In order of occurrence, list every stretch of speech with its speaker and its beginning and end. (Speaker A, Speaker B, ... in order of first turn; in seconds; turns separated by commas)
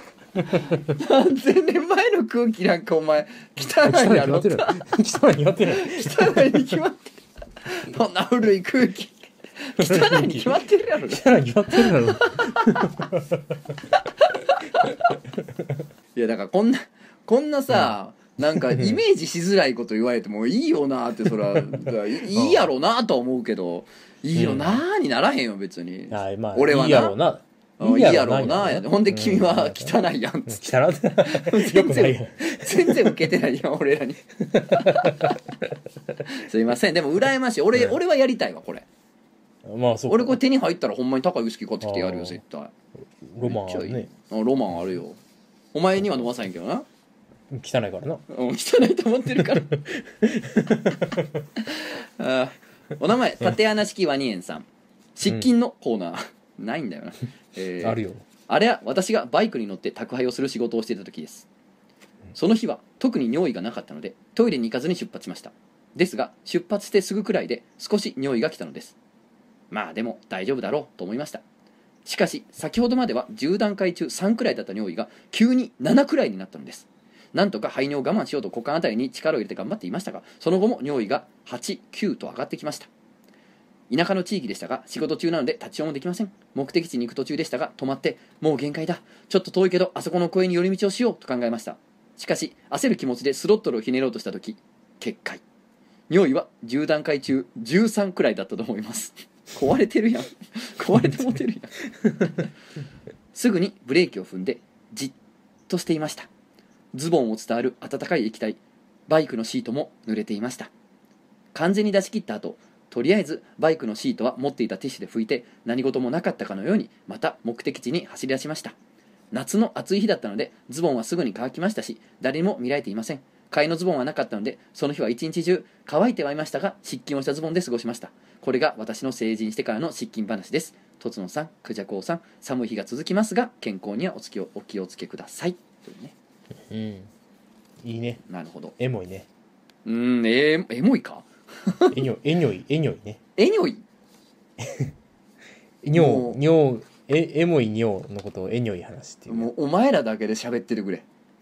Speaker A: 0.4-0.9, Speaker B: 0.9-4.8, Speaker A: 3.6-6.8, Speaker B: 5.7-13.1, Speaker A: 9.8-13.4, Speaker B: 13.9-15.2, Speaker B: 16.1-27.2, Speaker A: 17.7-19.0, Speaker A: 21.6-22.7, Speaker A: 24.3-24.8, Speaker A: 26.1-33.2, Speaker B: 27.8-30.6, Speaker B: 31.2-35.4, Speaker A: 34.5-35.7, Speaker B: 36.3-38.9, Speaker A: 39.6-40.4, Speaker B: 40.1-42.7, Speaker A: 41.8-42.4, Speaker A: 43.3-44.1, Speaker B: 43.4-45.2, Speaker B: 45.7-46.9, Speaker A: 47.5-48.2, Speaker B: 48.3-49.7, Speaker A: 49.5-51.4, Speaker B: 51.6-61.5, Speaker A: 57.8-58.2, Speaker B: 62.4-69.0, Speaker B: 69.7-71.4, Speaker B: 72.0-82.9, Speaker B: 83.9-95.4, Speaker B: 96.1-101.7, Speaker B: 103.3-105.2, Speaker B: 105.7-106.3, Speaker B: 106.9-110.7, Speaker B: 111.5-118.8, Speaker B: 119.3-136.1, Speaker A: 136.7-137.1, Speaker A: 137.8-138.2, Speaker B: 138.3-138.8, Speaker A: 138.8-139.3, Speaker B: 139.8-141.9, Speaker A: 141.9-143.2, Speaker B: 143.4-143.8, Speaker A: 144.6-144.9, Speaker B: 145.8-146.4, Speaker A: 145.9-149.5, Speaker B: 149.3-151.1